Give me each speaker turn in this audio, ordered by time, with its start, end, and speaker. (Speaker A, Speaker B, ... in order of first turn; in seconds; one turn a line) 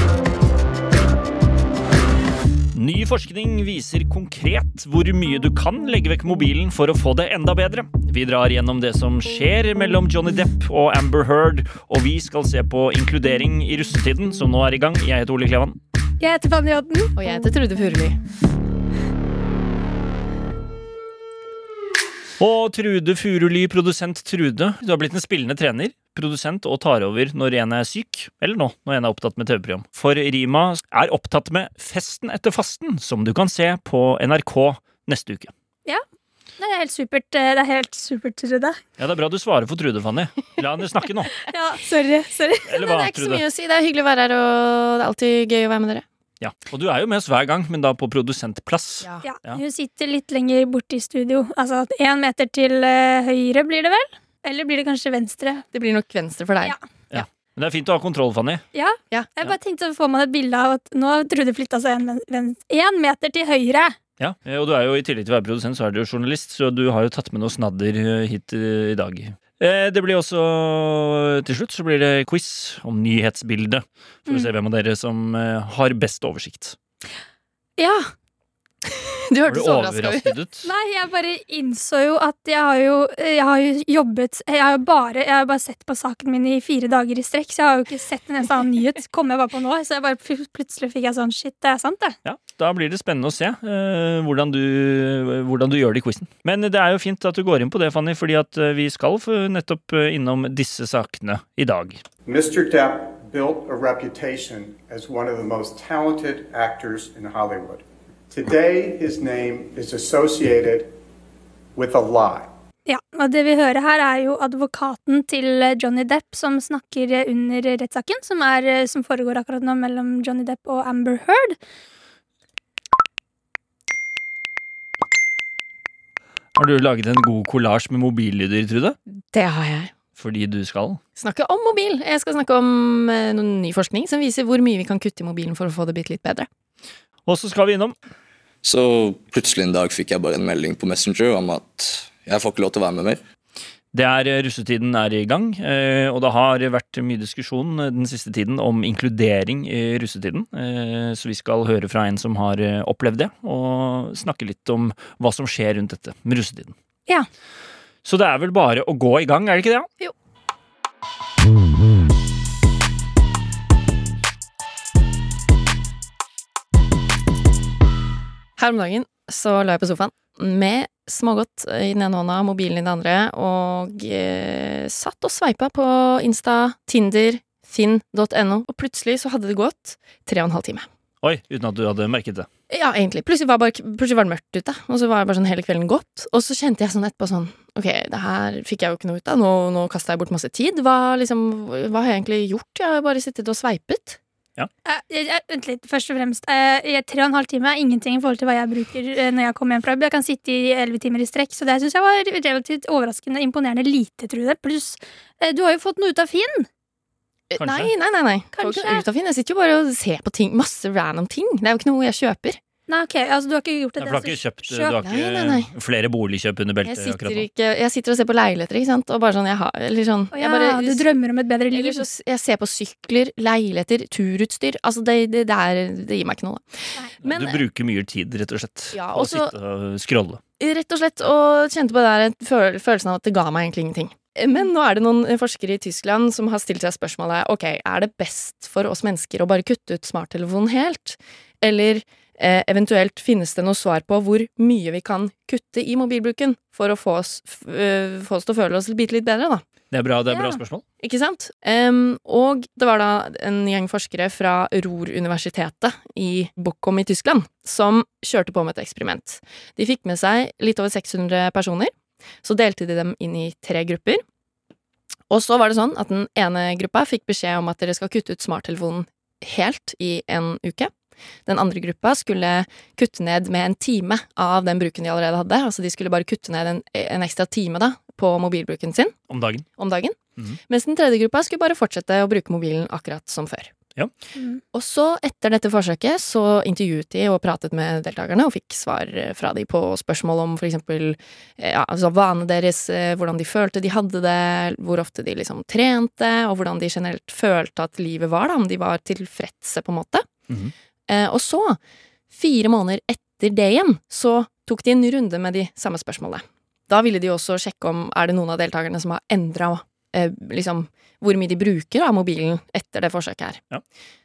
Speaker A: 2.7-15.8
Speaker B: 16.2-17.1
Speaker C: 17.1-18.2
Speaker A: 22.4-35.5
Speaker B: 36.6-38.8
Speaker A: 39.0-41.3
Speaker B: 41.5-42.7
Speaker A: 42.7-43.4
Speaker C: 42.7-46.0
Speaker A: 46.4-49.6
Speaker B: 49.2-55.6
Speaker C: 55.7-56.7
Speaker A: 57.1-58.6
Speaker B: 58.7-64.0
Speaker A: 64.2-76.8
Speaker B: 77.8-78.1
Speaker C: 78.9-80.4
Speaker A: 79.5-80.7
Speaker B: 80.6-92.2
Speaker A: 92.2-102.0
Speaker D: 102.2-110.9
Speaker D: 111.7-112.5
Speaker B: 112.9-121.6
Speaker A: 126.5-129.0
Speaker C: 129.3-129.9
Speaker A: 130.2-131.0
Speaker C: 131.2-136.5
Speaker A: 137.2-137.9
Speaker E: 138.6-143.2
Speaker A: 143.9-156.7
Speaker A: 158.0-159.9
Speaker C: 168.6-180.9
Speaker A: 181.2-182.5
Speaker C: 182.7-194.2
Speaker B: 194.8-206.7
Speaker C: 207.5-212.6
Speaker A: 207.6-207.9
Speaker B: 208.5-209.0
Speaker B: 212.9-214.9
Speaker A: 214.0-217.4
Speaker C: 215.0-215.7
Speaker C: 216.8-221.1
Speaker B: 220.3-222.0
Speaker C: 221.7-227.6
Speaker A: 227.2-230.4
Speaker C: 228.9-229.5
Speaker C: 230.6-249.6
Speaker A: 249.9-250.8
Speaker B: 250.3-250.6
Speaker C: 251.0-264.2
Speaker C: 265.3-270.9
Speaker C: 271.4-279.1
Speaker A: 279.3-279.6
Speaker C: 279.8-283.7
Speaker B: 284.4-284.6
Speaker C: 284.7-300.3
Speaker C: 301.1-301.8
Speaker C: 302.3-313.6